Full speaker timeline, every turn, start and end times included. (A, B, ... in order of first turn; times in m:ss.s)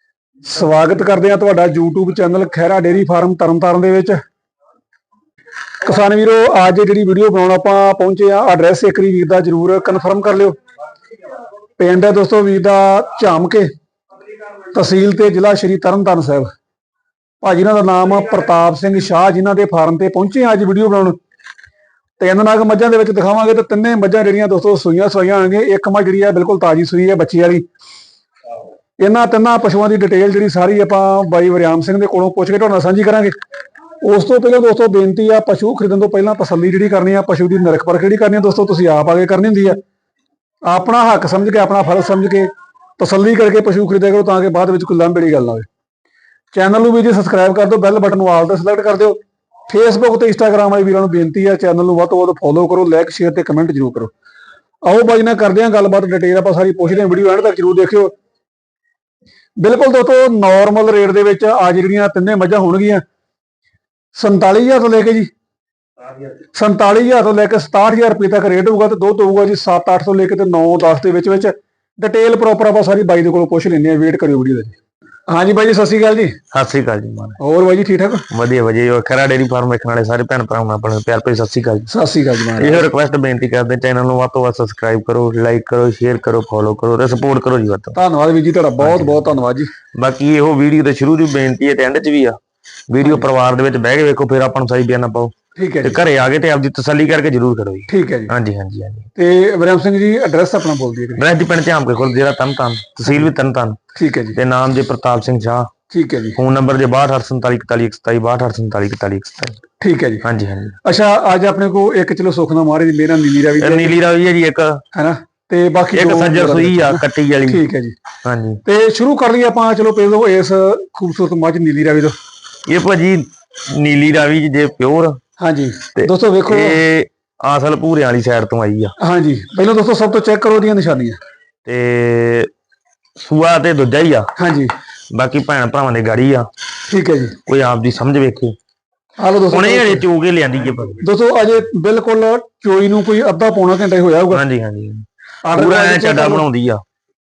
0:00.4-0:04.2 A
0:05.8-0:10.6 A
0:11.8-0:13.7 A
0:14.7-0:16.5 A
0:17.4-0:21.2 A
0:22.2-0:27.6 A
0:29.0-0:33.4 A
0:34.0-0:39.8 A
0:40.7-0:45.7 A
0:46.5-0:54.1 A
0:54.8-0:58.1 A
0:59.6-1:03.0 A
1:04.2-1:05.3 A
1:06.5-1:14.8 A
1:15.3-1:16.4 A
1:16.5-1:17.4 B
1:17.4-1:18.2 A
1:18.3-1:21.9 B
1:21.9-1:22.9 A
1:22.6-1:28.0 B
1:27.9-1:29.7 A
1:28.8-1:29.4 B
1:30.0-1:32.4 B
1:32.9-1:39.1 B
1:35.6-1:36.0 A
1:37.9-1:38.3 A
1:39.2-1:41.2 A
1:41.2-1:43.8 B
1:44.0-1:44.4 A
1:44.4-1:45.7 B
1:45.9-1:46.4 A
1:46.4-1:49.6 B
1:49.8-1:50.2 A
1:50.2-1:50.8 B
1:50.8-1:54.0 A
1:53.6-1:54.8 B
1:54.9-1:58.0 A
1:55.9-1:57.6 B
1:58.2-1:58.6 B
1:58.6-2:02.2 A
2:02.7-2:05.2 B
2:05.4-2:06.8 A
2:06.0-2:08.9 B
2:09.0-2:11.2 A
2:11.7-2:12.5 B
2:13.2-2:14.3 B
2:14.4-2:14.7 A
2:15.1-2:16.5 B
2:16.9-2:17.4 A
2:17.5-2:18.6 B
2:19.2-2:20.0 A
2:19.5-2:21.0 B
2:21.0-2:24.4 A
2:24.3-2:26.8 B
2:25.4-2:26.4 A